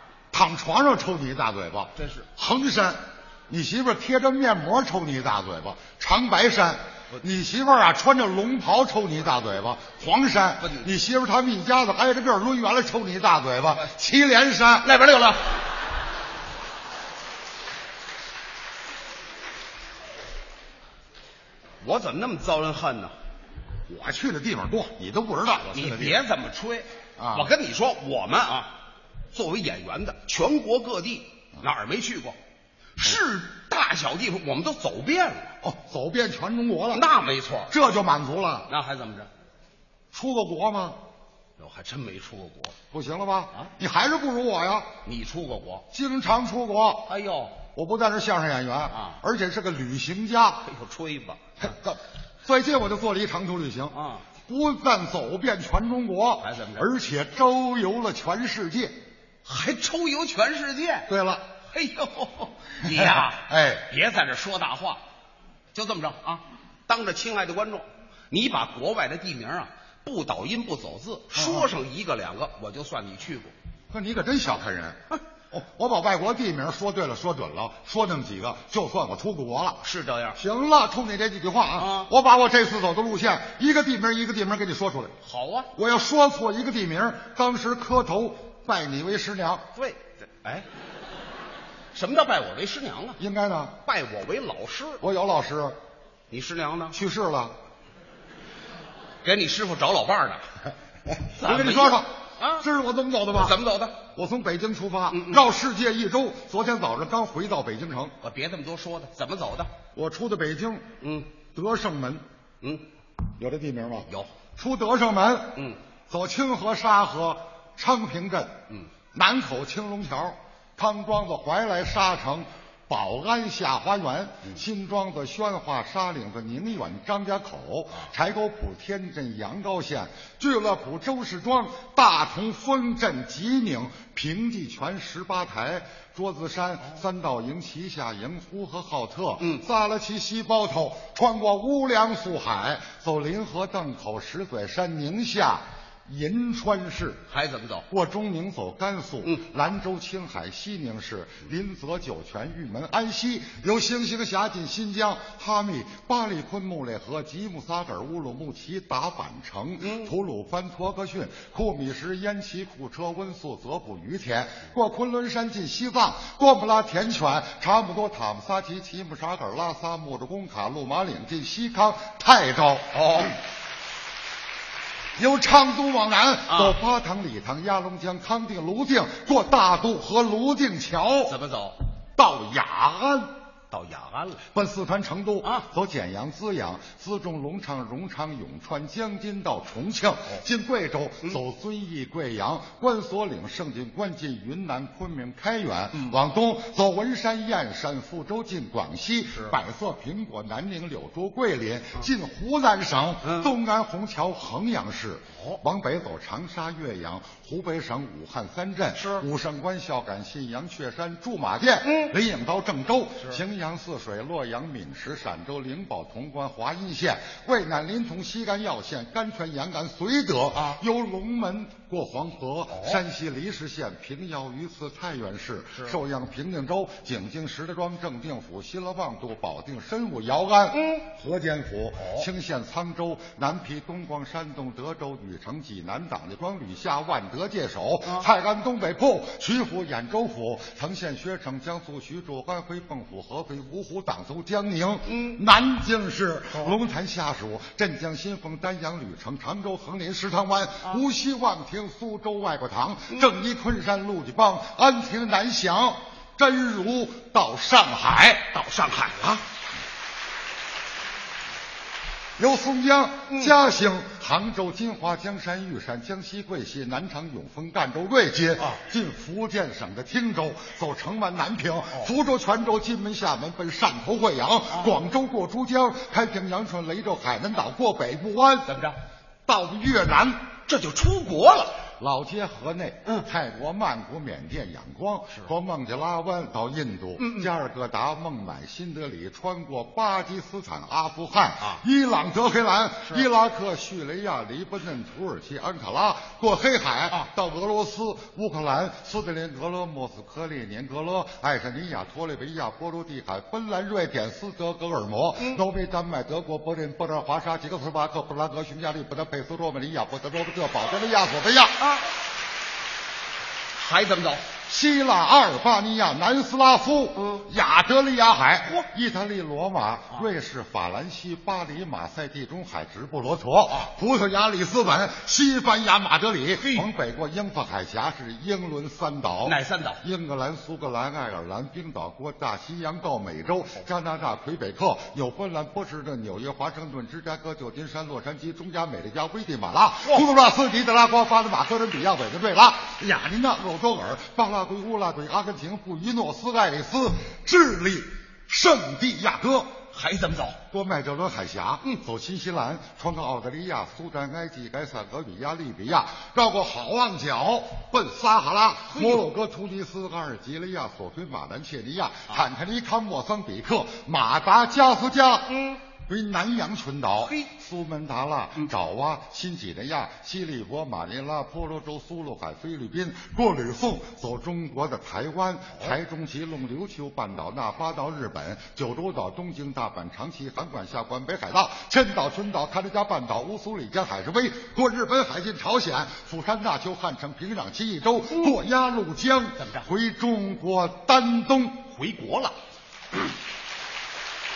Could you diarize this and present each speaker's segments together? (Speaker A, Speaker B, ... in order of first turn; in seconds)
Speaker A: 0.3-14.9, 23.9-26.2, 27.2-27.5, 35.6-37.0, 37.7-38.7, 40.1-41.0, 42.9-44.9, 45.9-47.1, 47.7-50.6, 51.6-54.0, 54.5-59.0, 61.1-61.5, 63.1-63.9, 71.3-71.7, 73.9-75.0, 75.5-79.8, 80.3-85.2, 85.7-89.7, 93.2-93.8, 95.0-95.8, 96.9-97.5, 101.3-102.1, 102.6-108.1, 109.9-110.8, 111.5-112.2, 113.4-115.6, 116.1-118.5, 119.1-147.2, 147.9-173.0, 175.2-181.3, 182.2-183.3, 184.5-258.5, 262.4-278.8, 279.5-280.4, 282.0-311.8, 314.7-349.7, 350.7-365.5, 366.1-391.9
Speaker B: 1.9-2.3, 10.6-10.9, 14.8-15.6, 21.8-23.1, 25.7-28.7, 29.3-32.4, 33.0-35.5, 36.9-37.7, 38.7-39.3, 41.6-42.7, 45.0-45.8, 47.1-47.6, 48.9-49.2, 50.6-51.4, 53.9-54.2, 56.4-56.9, 59.4-61.1, 61.7-65.0, 65.7-73.5, 79.8-80.4, 81.8-82.1, 85.2-85.7, 89.7-90.7, 91.9-93.2, 93.8-95.0, 96.3-97.0, 99.2-100.5, 101.3-102.7, 103.3-104.0, 105.1-105.4, 108.2-109.7, 111.0-111.3, 112.6-112.9, 114.1-114.3, 139.4-139.7, 147.3-147.8, 159.8-160.1, 172.9-173.4, 176.5-176.8, 181.3-181.8, 183.7-184.4, 203.2-203.5, 208.9-209.2, 211.8-212.1, 220.5-220.8, 222.7-223.0, 230.7-231.1, 232.0-232.2, 245.1-245.4, 258.5-259.4, 278.7-279.0, 280.6-281.8, 287.2-287.5, 313.8-314.5, 317.2-317.4, 326.6-326.9, 329.4-330.0, 349.9-350.6, 358.9-359.2, 365.5-365.8, 389.6-389.9, 391.9-392.5